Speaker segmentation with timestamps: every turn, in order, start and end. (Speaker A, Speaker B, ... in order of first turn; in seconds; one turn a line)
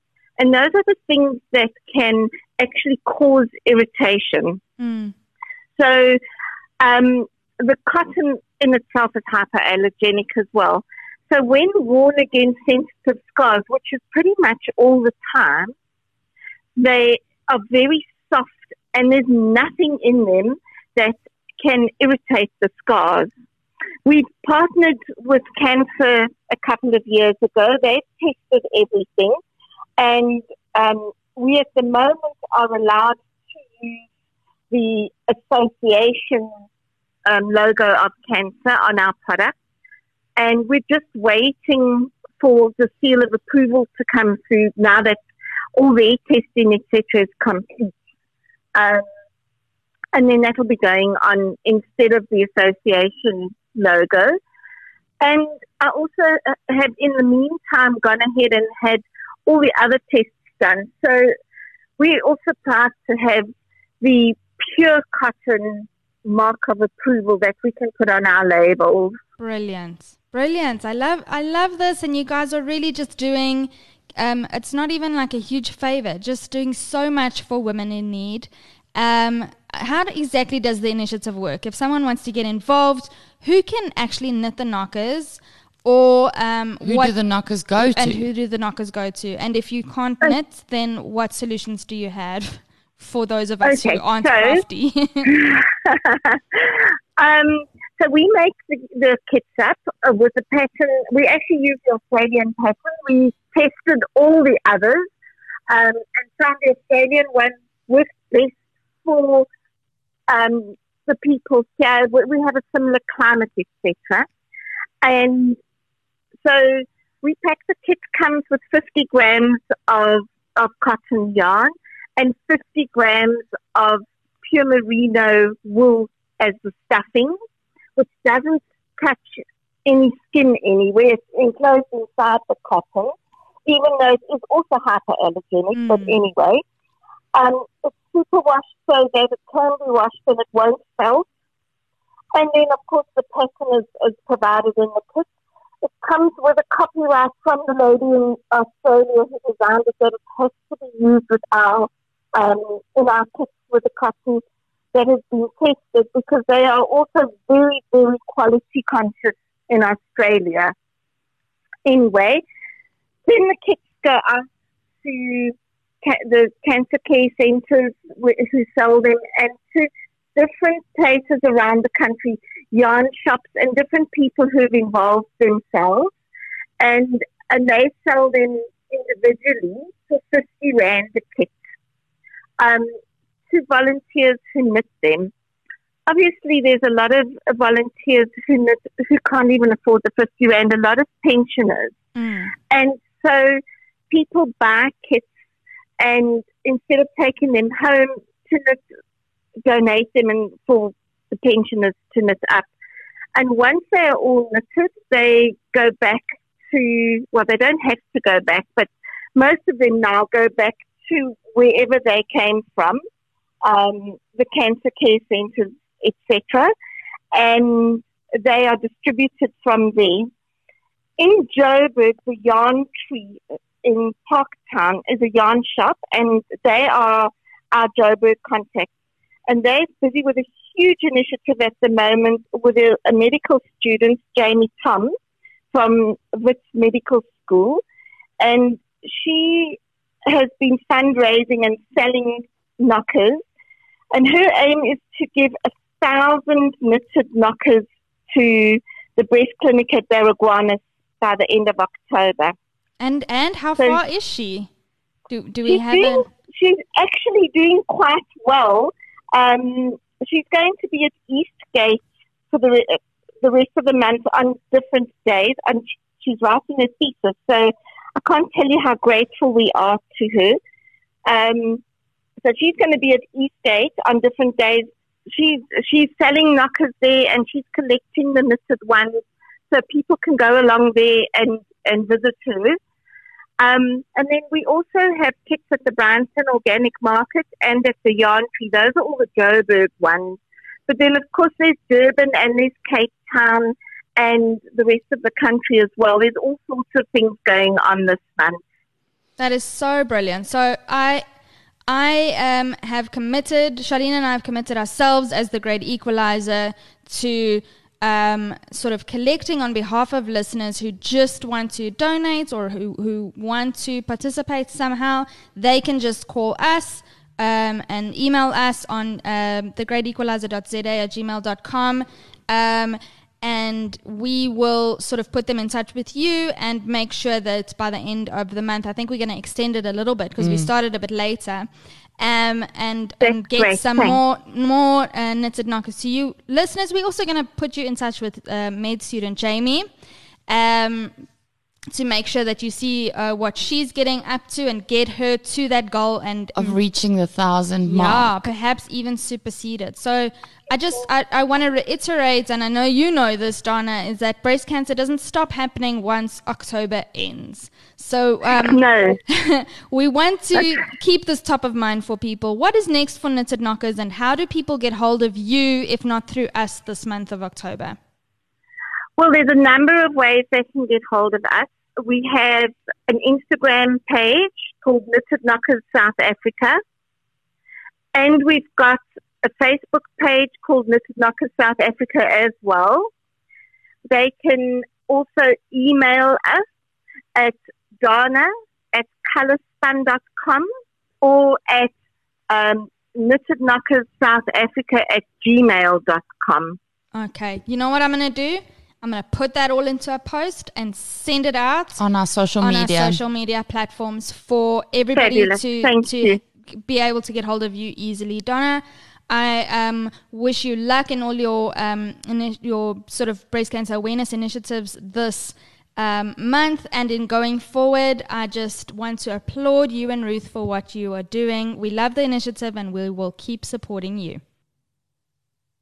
Speaker A: 0.4-4.6
Speaker B: 4.8-5.1
Speaker A: 5.8-6.2
Speaker A: 6.8-15.7
Speaker A: 16.8-23.3
Speaker A: 24.0-29.4
Speaker A: 30.0-33.2
Speaker A: 33.7-34.0
Speaker A: 34.7-36.5
Speaker A: 37.2-39.5
Speaker A: 40.4-45.2
Speaker A: 45.7-47.9
Speaker A: 48.7-49.0
Speaker A: 50.1-54.4
Speaker A: 55.2-61.3
Speaker A: 62.0-63.5
Speaker A: 64.0-69.2
Speaker B: 69.4-87.1
Speaker C: 86.8-88.2
Speaker B: 87.8-95.3
Speaker A: 93.6-94.6
Speaker A: 95.3-105.1
Speaker A: 105.7-109.5
Speaker A: 110.3-114.2
Speaker A: 115.0-115.6
Speaker A: 116.4-127.4
Speaker A: 128.0-133.1
Speaker A: 133.7-136.6
Speaker B: 135.7-136.2
Speaker A: 137.3-141.2
Speaker A: 142.3-145.3
Speaker A: 145.8-154.4
Speaker A: 154.9-160.7
Speaker A: 161.8-162.4
Speaker A: 163.3-164.5
Speaker A: 165.0-176.1
Speaker A: 176.8-181.5
Speaker A: 182.6-182.9
Speaker A: 183.5-185.3
Speaker A: 186.1-191.9
Speaker B: 192.2-192.5
Speaker A: 192.7-193.6
Speaker A: 194.1-195.2
Speaker A: 196.0-198.8
Speaker A: 199.6-202.7
Speaker A: 203.3-213.0
Speaker A: 213.6-216.7
Speaker A: 217.3-220.3
Speaker A: 221.2-228.9
Speaker A: 229.5-235.1
Speaker A: 235.7-237.8
Speaker A: 238.4-243.4
Speaker A: 244.1-252.5
Speaker B: 253.0-254.7
Speaker B: 255.3-256.2
Speaker A: 255.7-270.6
Speaker A: 271.2-271.8
Speaker A: 272.4-282.8
Speaker A: 283.6-298.6
Speaker B: 299.4-301.2
Speaker B: 301.9-339.9
Speaker C: 330.4-330.7
Speaker A: 333.2-334.2
Speaker B: 340.5-341.1
Speaker B: 341.9-346.8
Speaker C: 346.6-348.3
Speaker B: 347.9-368.0
Speaker A: 358.5-359.2
Speaker A: 369.2-376.8
Speaker A: 378.1-383.1
Speaker A: 384.1-386.6
Speaker A: 387.3-390.7
Speaker A: 391.2-391.9
Speaker A: 392.5-396.8
Speaker B: 397.1-402.0
Speaker C: 402.0-403.2
Speaker B: 402.6-424.4
Speaker A: 405.1-406.4